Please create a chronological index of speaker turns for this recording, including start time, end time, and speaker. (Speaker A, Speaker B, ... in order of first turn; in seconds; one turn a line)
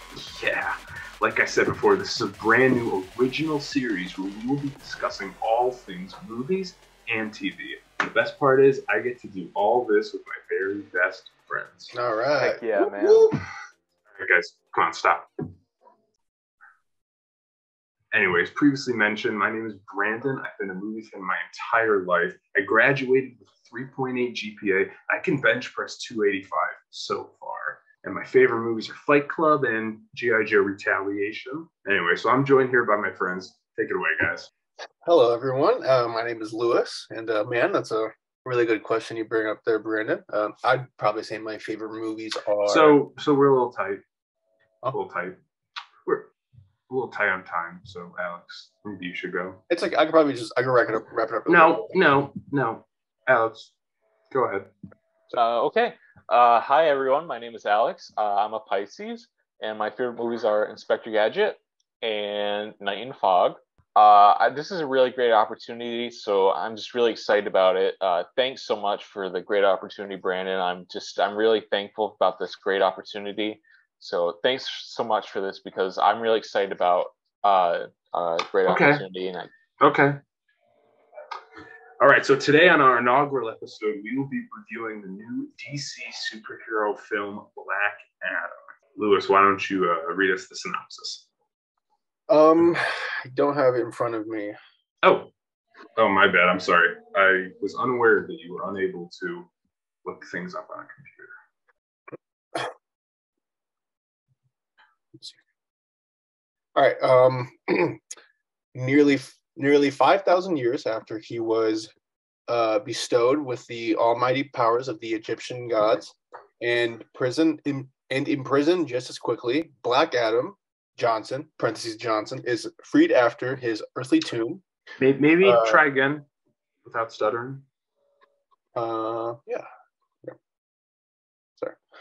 Speaker A: 0.1-11.9
Speaker B: 11.9-12.7
Speaker C: 12.4-13.3
Speaker A: 12.7-13.4
Speaker A: 14.1-15.3
Speaker A: 18.1-34.5
Speaker B: 35.0-43.0
Speaker A: 42.6-44.0
Speaker A: 44.9-45.4
Speaker A: 46.0-46.3
Speaker A: 46.9-49.6
Speaker B: 49.7-52.0
Speaker A: 51.5-53.7
Speaker A: 54.3-54.7
Speaker C: 55.3-79.5
Speaker A: 78.7-79.0
Speaker A: 79.8-80.2
Speaker A: 82.0-91.3
Speaker B: 92.3-94.6
Speaker A: 95.0-95.3
Speaker A: 96.0-99.5
Speaker A: 100.0-101.3
Speaker B: 106.7-108.0
Speaker B: 108.7-111.9
Speaker B: 112.5-124.6
Speaker A: 125.0-126.2
Speaker B: 125.4-125.8
Speaker A: 126.8-127.6
Speaker B: 128.7-129.6